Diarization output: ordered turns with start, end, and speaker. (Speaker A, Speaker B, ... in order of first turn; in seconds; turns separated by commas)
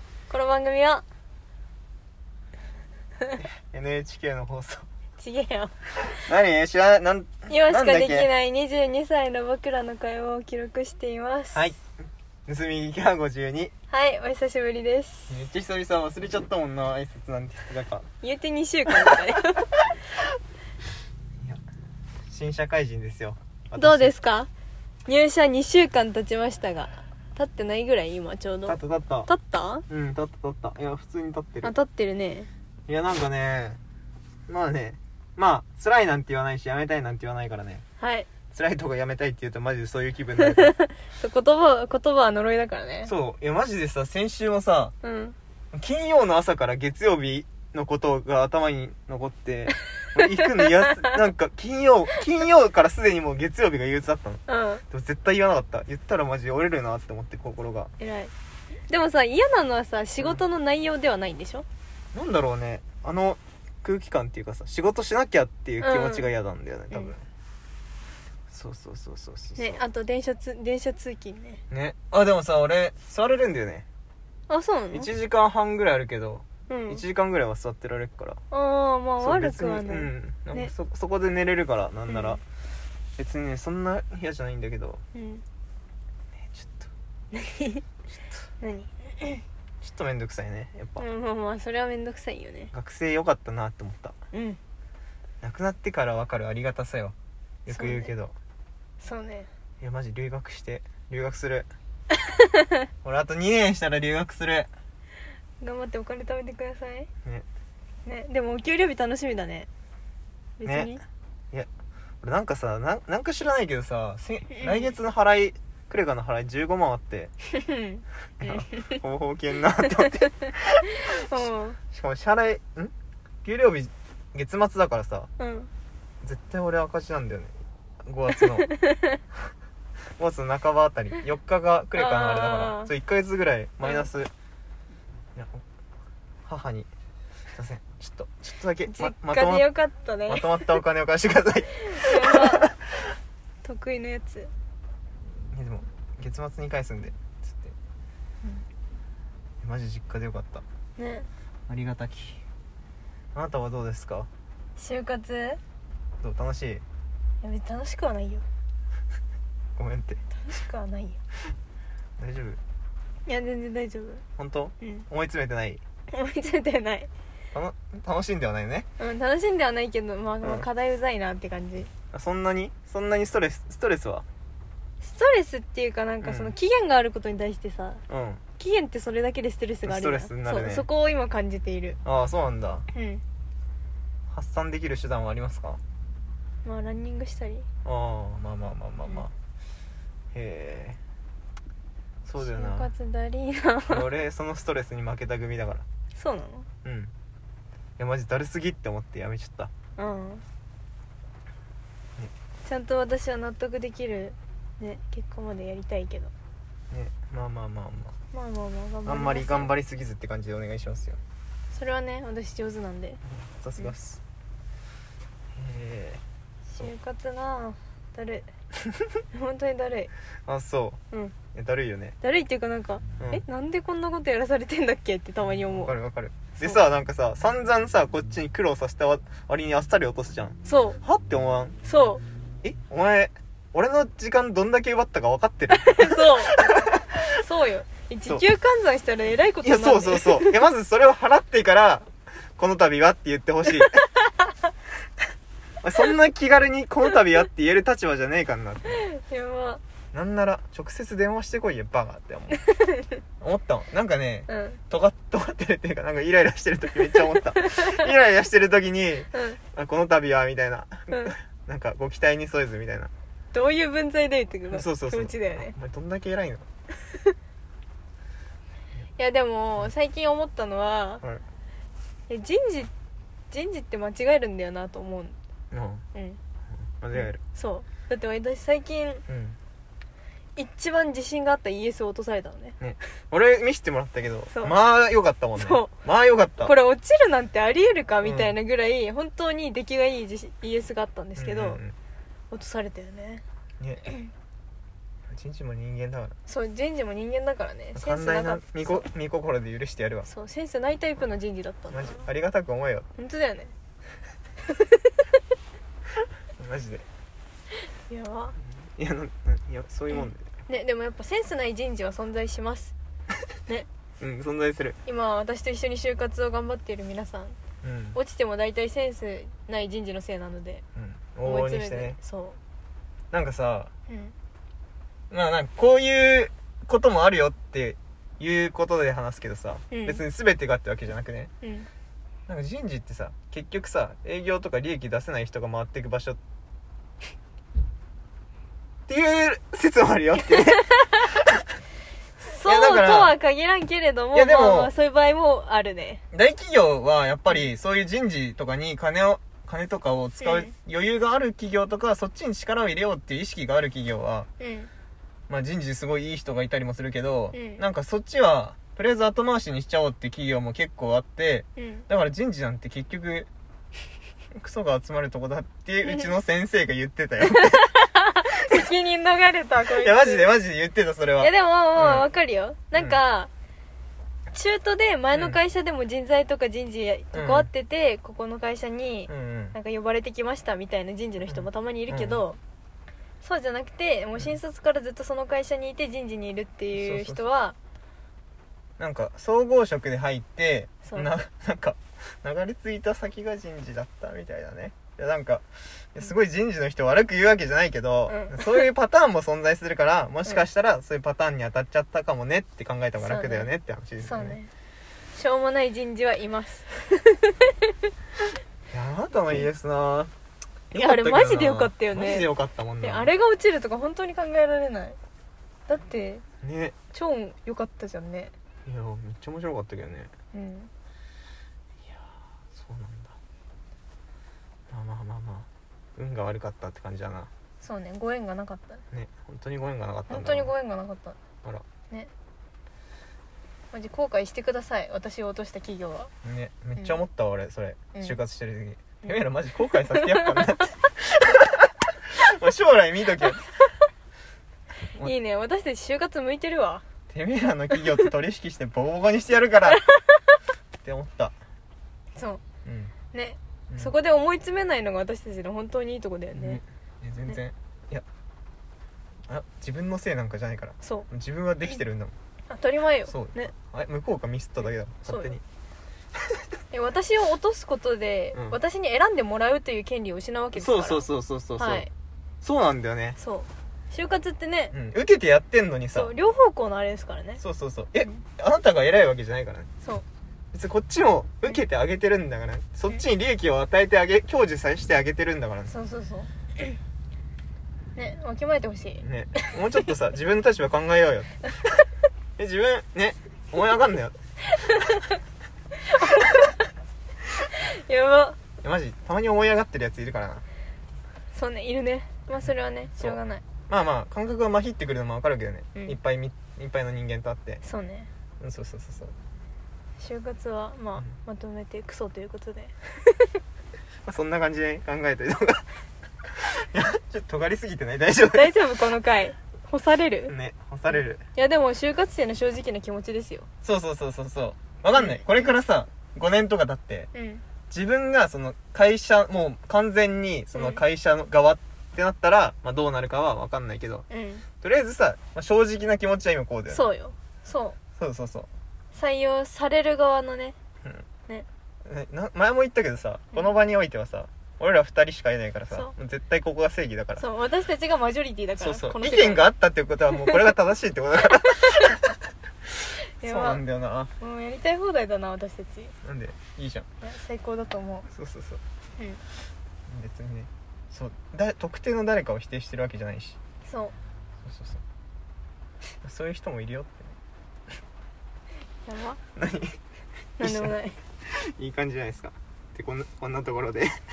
Speaker A: 0.3-1.0, Speaker B: 3.4-4.8, Speaker A: 5.2-5.7, Speaker B: 6.1-8.3, Speaker A: 7.5-11.6, Speaker B: 11.5-11.8, Speaker B: 12.5-13.7, Speaker A: 13.9-15.3, Speaker B: 15.3-18.1, Speaker A: 18.2-19.7, Speaker B: 22.3-24.1, Speaker A: 23.8-24.5, Speaker A: 25.1-29.8, Speaker B: 28.6-29.3, Speaker B: 29.9-31.7, Speaker A: 31.6-32.5, Speaker B: 32.9-33.8, Speaker B: 34.5-37.8, Speaker A: 38.0-38.3, Speaker B: 38.5-40.7, Speaker A: 40.4-43.1, Speaker B: 43.0-44.9, Speaker A: 45.0-45.4, Speaker B: 45.7-57.9, Speaker A: 50.4-51.1, Speaker A: 54.5-54.8, Speaker A: 58.0-58.3, Speaker A: 58.9-61.6, Speaker B: 62.1-67.2, Speaker A: 65.8-66.3, Speaker B: 68.5-69.8, Speaker A: 69.5-71.6, Speaker B: 71.7-73.8, Speaker A: 74.5-75.1, Speaker B: 74.9-78.4, Speaker A: 76.7-77.0, Speaker A: 78.5-80.7, Speaker B: 79.2-82.4, Speaker A: 82.1-82.4, Speaker B: 83.2-85.0, Speaker A: 85.1-85.4, Speaker B: 86.5-86.9, Speaker A: 87.3-87.8, Speaker A: 88.6-89.4, Speaker B: 89.8-91.0, Speaker A: 91.0-92.7, Speaker B: 92.7-94.2, Speaker A: 94.3-94.6, Speaker B: 95.4-97.1, Speaker B: 97.7-98.3, Speaker A: 97.7-98.1, Speaker A: 99.0-99.5, Speaker B: 99.8-101.7, Speaker B: 103.0-104.7, Speaker A: 105.6-107.1, Speaker A: 108.0-109.7, Speaker A: 110.6-111.0, Speaker B: 110.6-110.9, Speaker B: 112.2-117.3, Speaker A: 114.5-114.9, Speaker A: 117.5-119.0, Speaker B: 118.4-122.9, Speaker A: 119.8-120.3, Speaker A: 120.9-121.8, Speaker B: 123.4-125.3, Speaker A: 125.4-125.7, Speaker B: 126.2-128.7, Speaker A: 128.4-129.2, Speaker B: 130.2-134.3, Speaker A: 131.9-132.9, Speaker B: 135.3-135.6, Speaker B: 136.4-136.9, Speaker B: 137.5-139.7, Speaker A: 138.9-140.7, Speaker B: 140.3-142.7, Speaker A: 141.8-142.7, Speaker A: 143.6-144.5, Speaker B: 145.5-147.7, Speaker B: 149.6-150.6, Speaker A: 151.0-151.3, Speaker B: 151.7-152.4, Speaker B: 153.3-154.3, Speaker A: 154.8-155.6, Speaker B: 156.2-156.8, Speaker A: 157.4-158.4, Speaker B: 159.8-160.2, Speaker A: 160.3-161.2, Speaker B: 162.2-162.6, Speaker A: 163.2-164.2, Speaker B: 164.4-165.8, Speaker A: 166.1-167.1, Speaker B: 167.5-168.9, Speaker A: 169.0-171.9, Speaker B: 172.1-174.2, Speaker A: 175.0-178.0, Speaker B: 176.2-176.5, Speaker B: 178.1-178.4, Speaker A: 178.6-182.0, Speaker B: 179.8-180.9, Speaker B: 182.0-182.9, Speaker A: 182.9-183.2, Speaker B: 184.3-185.8, Speaker A: 186.6-187.7, Speaker B: 187.8-189.3, Speaker B: 190.3-191.0, Speaker B: 192.2-192.9, Speaker A: 192.4-194.0, Speaker B: 193.9-195.8, Speaker A: 196.1-196.7, Speaker B: 196.8-197.1, Speaker B: 198.0-199.7, Speaker A: 200.0-200.4, Speaker A: 202.6-206.3, Speaker B: 206.9-208.2, Speaker A: 208.3-209.7, Speaker B: 209.0-211.2, Speaker A: 211.7-213.2, Speaker B: 213.4-214.2, Speaker B: 215.5-216.2, Speaker A: 216.7-218.5, Speaker A: 219.3-220.1, Speaker B: 220.4-221.0, Speaker B: 221.5-222.2, Speaker A: 222.2-225.9, Speaker B: 225.5-231.8, Speaker A: 226.6-226.8, Speaker A: 230.6-231.0, Speaker A: 231.8-232.2, Speaker B: 232.6-237.0, Speaker A: 235.7-240.5, Speaker B: 239.6-244.1, Speaker B: 245.8-249.0, Speaker A: 248.9-249.8, Speaker B: 250.1-252.6, Speaker A: 252.6-253.0, Speaker B: 253.4-263.1, Speaker A: 254.5-254.8, Speaker A: 257.6-257.9, Speaker A: 259.3-259.6, Speaker A: 261.1-261.4, Speaker A: 263.5-265.7, Speaker B: 264.7-266.6, Speaker A: 269.2-271.2, Speaker A: 272.3-272.9, Speaker A: 273.5-275.4, Speaker B: 275.7-276.0, Speaker A: 276.1-276.4, Speaker B: 277.0-277.4, Speaker A: 277.1-279.2, Speaker B: 279.3-279.6, Speaker A: 280.6-282.8, Speaker B: 282.8-286.7, Speaker A: 285.6-285.9, Speaker A: 286.6-291.8, Speaker B: 288.2-288.5, Speaker B: 291.4-291.9, Speaker A: 292.5-293.4, Speaker B: 293.8-294.1, Speaker B: 295.3-296.4, Speaker A: 296.4-299.1, Speaker B: 297.9-300.3, Speaker A: 300.2-302.3, Speaker B: 301.9-303.1, Speaker A: 303.2-303.7, Speaker A: 304.7-305.0, Speaker B: 306.6-307.1, Speaker A: 308.1-308.5, Speaker B: 308.9-310.4, Speaker A: 310.1-312.9, Speaker B: 314.2-315.0, Speaker A: 315.1-317.6, Speaker B: 317.8-318.2, Speaker A: 318.1-320.8, Speaker B: 320.9-322.2, Speaker A: 321.4-322.6, Speaker B: 323.3-323.9, Speaker A: 324.1-324.3, Speaker B: 325.3-331.5, Speaker A: 329.9-330.2, Speaker A: 331.6-331.9, Speaker B: 332.5-336.4, Speaker B: 339.1-341.4, Speaker A: 342.4-346.2, Speaker B: 342.6-343.4, Speaker B: 344.3-344.9, Speaker B: 346.3-354.5, Speaker A: 350.4-350.7, Speaker A: 354.6-354.9, Speaker B: 355.5-363.5, Speaker A: 357.5-357.8, Speaker A: 361.8-362.0, Speaker B: 364.5-368.1, Speaker A: 368.0-370.5, Speaker B: 370.0-372.3, Speaker A: 371.4-373.5, Speaker A: 374.5-382.6, Speaker B: 377.3-377.7, Speaker B: 379.3-379.8, Speaker B: 381.5-382.4, Speaker A: 383.4-387.8, Speaker B: 386.9-387.4, Speaker B: 389.0-395.6, Speaker B: 396.1-404.6, Speaker A: 398.3-398.7, Speaker A: 403.2-403.7, Speaker A: 404.2-404.7, Speaker A: 405.3-407.9, Speaker B: 408.9-410.3, Speaker A: 410.9-412.5, Speaker B: 410.9-413.3, Speaker A: 413.0-415.2, Speaker A: 415.9-416.4, Speaker B: 416.6-416.9, Speaker A: 417.1-418.5, Speaker B: 418.9-420.3, Speaker A: 420.5-420.9, Speaker B: 422.7-423.3, Speaker B: 424.9-427.5, Speaker A: 427.8-429.0, Speaker B: 429.1-430.7, Speaker A: 430.3-431.4, Speaker A: 433.9-436.3, Speaker B: 436.4-443.6, Speaker A: 440.1-440.6, Speaker A: 445.2-447.0, Speaker B: 447.3-450.1, Speaker A: 449.9-450.3, Speaker B: 451.0-451.5, Speaker A: 452.4-452.6, Speaker B: 452.8-453.1, Speaker A: 453.3-456.8, Speaker B: 456.5-458.2, Speaker B: 459.5-462.3, Speaker A: 461.0-461.3, Speaker A: 462.7-463.7, Speaker B: 463.3-465.6, Speaker A: 465.3-465.6, Speaker A: 466.9-472.1, Speaker B: 470.7-472.1, Speaker B: 472.6-473.4, Speaker A: 473.4-474.9, Speaker B: 474.9-476.3, Speaker A: 476.1-477.6, Speaker B: 477.6-479.9, Speaker B: 480.7-485.9, Speaker A: 485.9-486.5, Speaker A: 488.1-489.2, Speaker B: 489.2-491.7, Speaker B: 492.6-494.4, Speaker A: 496.1-496.7, Speaker A: 497.7-498.6, Speaker B: 498.8-500.6, Speaker A: 501.5-503.6, Speaker B: 503.2-507.8, Speaker A: 507.8-508.3, Speaker B: 508.6-509.3, Speaker A: 510.2-513.4, Speaker B: 514.2-515.9, Speaker B: 516.5-518.8, Speaker A: 518.5-520.5, Speaker B: 520.5-521.4, Speaker A: 521.5-523.7, Speaker B: 523.8-527.3, Speaker A: 525.2-525.5, Speaker A: 527.3-527.6, Speaker B: 527.9-534.2, Speaker A: 530.7-531.0, Speaker A: 534.3-534.6, Speaker B: 534.8-537.1, Speaker A: 536.9-538.0, Speaker B: 538.1-538.7, Speaker A: 539.1-540.8, Speaker B: 542.0-547.4, Speaker A: 547.4-549.7, Speaker B: 548.8-552.3, Speaker A: 553.4-553.8, Speaker B: 553.4-554.3, Speaker A: 554.4-556.1, Speaker B: 556.2-557.1, Speaker A: 557.2-558.3, Speaker B: 558.3-558.8, Speaker B: 560.1-563.6, Speaker A: 563.8-564.1, Speaker B: 564.6-565.0, Speaker B: 566.2-567.3, Speaker A: 569.0-569.4, Speaker B: 569.5-570.0, Speaker A: 570.6-571.2, Speaker B: 570.6-570.9, Speaker B: 571.5-574.2